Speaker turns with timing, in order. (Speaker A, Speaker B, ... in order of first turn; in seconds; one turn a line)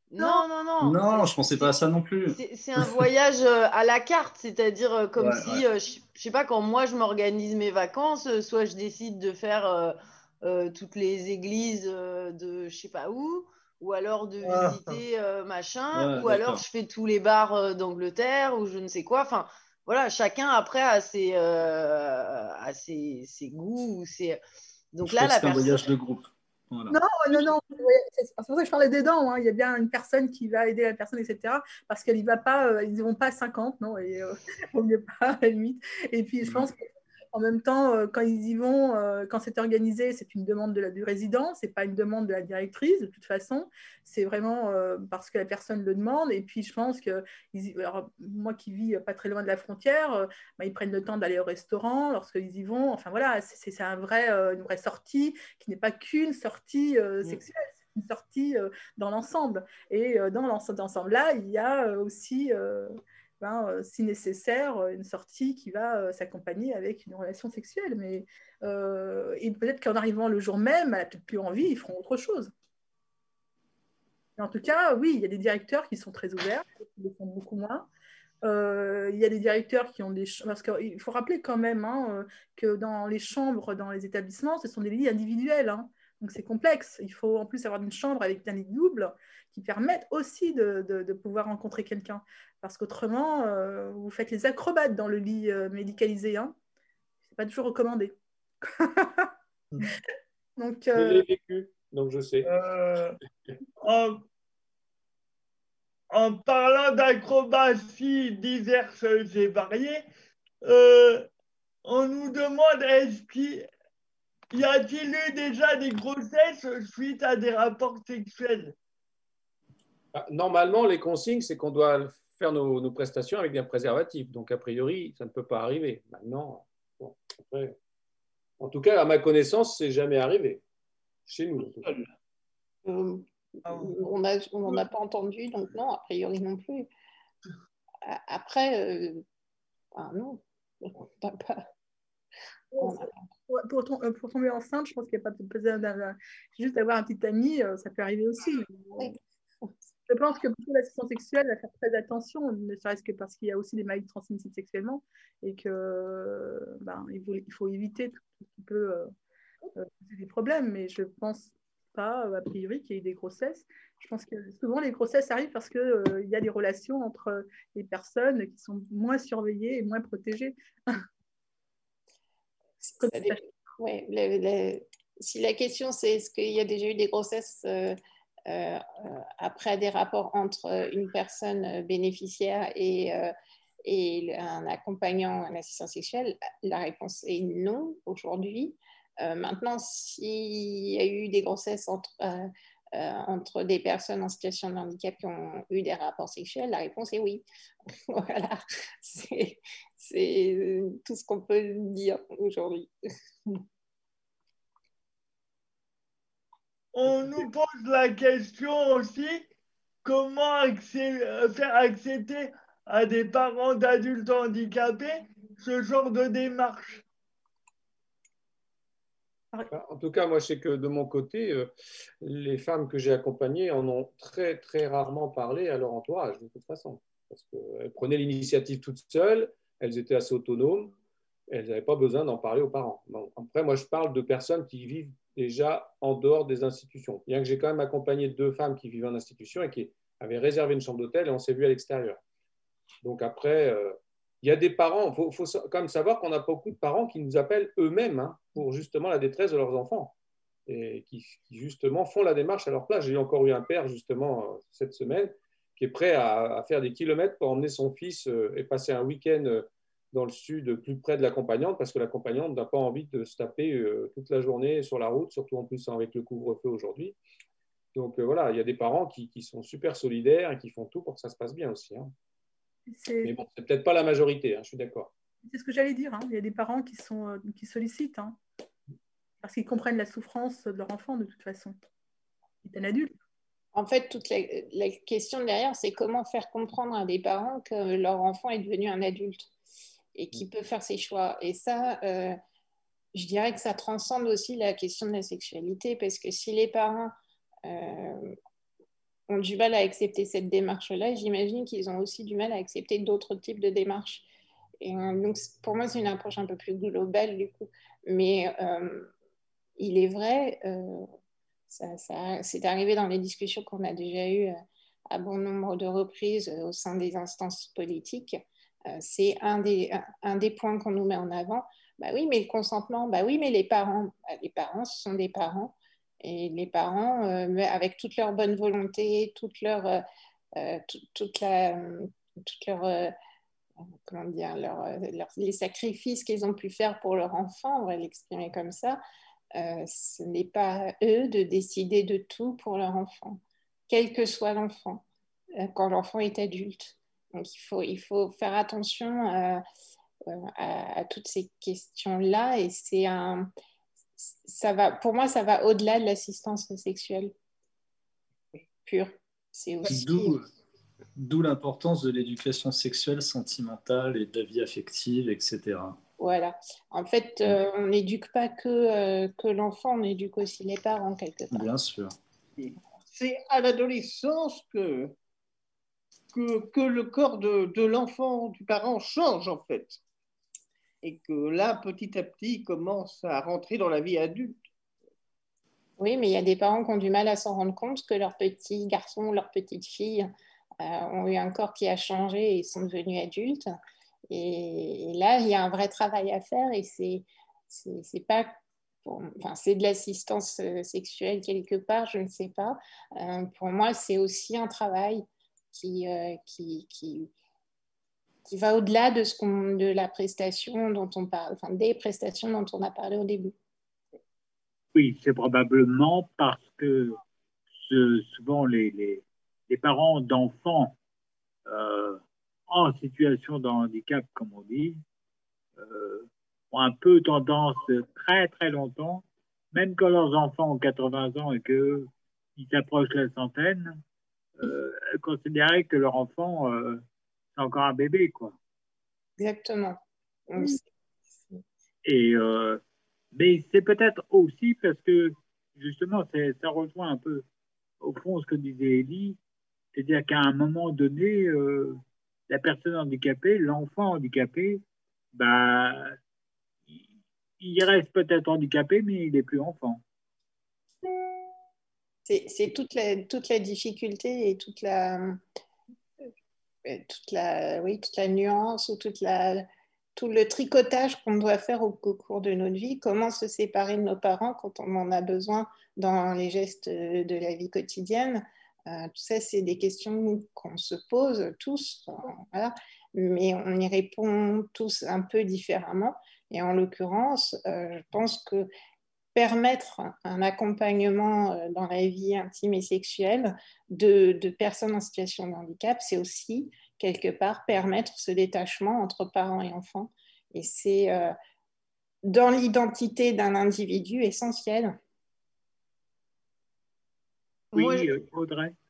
Speaker A: 0.1-1.7
Speaker B: 0.2-0.4
Speaker C: 0.8-3.1
Speaker A: 2.3-24.4
Speaker C: 5.2-5.6
Speaker C: 14.5-14.8
Speaker C: 15.9-16.6
Speaker A: 24.9-25.9
Speaker C: 25.0-27.5
Speaker B: 26.9-72.5
Speaker C: 36.4-36.7
Speaker B: 74.4-77.9
Speaker B: 78.4-96.5
Speaker B: 97.2-99.3
Speaker B: 100.6-101.2
Speaker D: 101.0-102.5
Speaker E: 102.4-103.2
Speaker E: 103.8-104.2
Speaker E: 106.1-110.0
Speaker E: 110.7-111.2
Speaker E: 111.8-113.7
Speaker E: 114.5-118.7
Speaker D: 120.1-127.7
Speaker D: 128.6-130.6
Speaker D: 131.3-132.0
Speaker F: 131.8-132.1
Speaker G: 132.8-136.9
Speaker G: 138.1-139.2
Speaker G: 139.9-141.7
Speaker B: 142.7-149.1
Speaker G: 142.8-143.2
Speaker G: 149.0-149.7
Speaker B: 150.1-159.1
Speaker B: 159.8-171.0
Speaker G: 172.8-178.0
Speaker B: 173.0-173.4
Speaker G: 178.5-183.3
Speaker G: 183.8-197.4
Speaker G: 198.1-202.9
Speaker E: 206.9-209.5
Speaker E: 210.0-217.0
Speaker D: 219.7-221.7
Speaker D: 222.2-230.9
Speaker D: 231.5-242.2
Speaker D: 243.0-250.1
Speaker D: 250.7-267.2
Speaker D: 267.9-272.1
Speaker B: 272.9-273.3
Speaker D: 273.2-275.1
Speaker B: 275.5-278.4
Speaker B: 279.4-281.7
Speaker B: 282.6-283.1
Speaker G: 283.7-289.5
Speaker G: 290.1-292.4
Speaker G: 293.1-297.1
Speaker G: 297.6-298.4
Speaker G: 299.3-304.2
Speaker G: 304.8-309.1
Speaker G: 309.8-311.1
Speaker G: 311.7-314.6
Speaker G: 315.1-330.0
Speaker G: 330.6-333.1
Speaker G: 333.8-339.0
Speaker G: 339.6-345.0
Speaker G: 345.6-349.6
Speaker G: 350.2-353.5
Speaker G: 354.2-357.3
Speaker G: 358.8-360.4
Speaker C: 359.9-360.4
Speaker C: 361.2-366.0
Speaker G: 366.2-371.7
Speaker C: 371.5-372.1
Speaker F: 372.6-375.1
Speaker F: 376.3-380.0
Speaker F: 381.0-384.6
Speaker G: 386.0-393.7
Speaker G: 394.3-407.3
Speaker G: 408.5-413.5
Speaker H: 414.9-417.2
Speaker H: 417.7-420.9
Speaker H: 421.7-425.0
Speaker H: 425.8-434.0
Speaker H: 434.6-437.0
Speaker H: 437.6-438.6
Speaker G: 439.4-440.9
Speaker H: 442.0-442.8
Speaker H: 443.3-447.4
Speaker H: 448.0-449.4
Speaker H: 449.9-454.8
Speaker H: 455.3-456.2
Speaker H: 456.9-460.0
Speaker G: 462.2-465.4
Speaker G: 466.8-488.7
Speaker G: 489.3-501.3
Speaker G: 502.2-505.0
Speaker A: 507.7-508.1
Speaker H: 507.7-508.7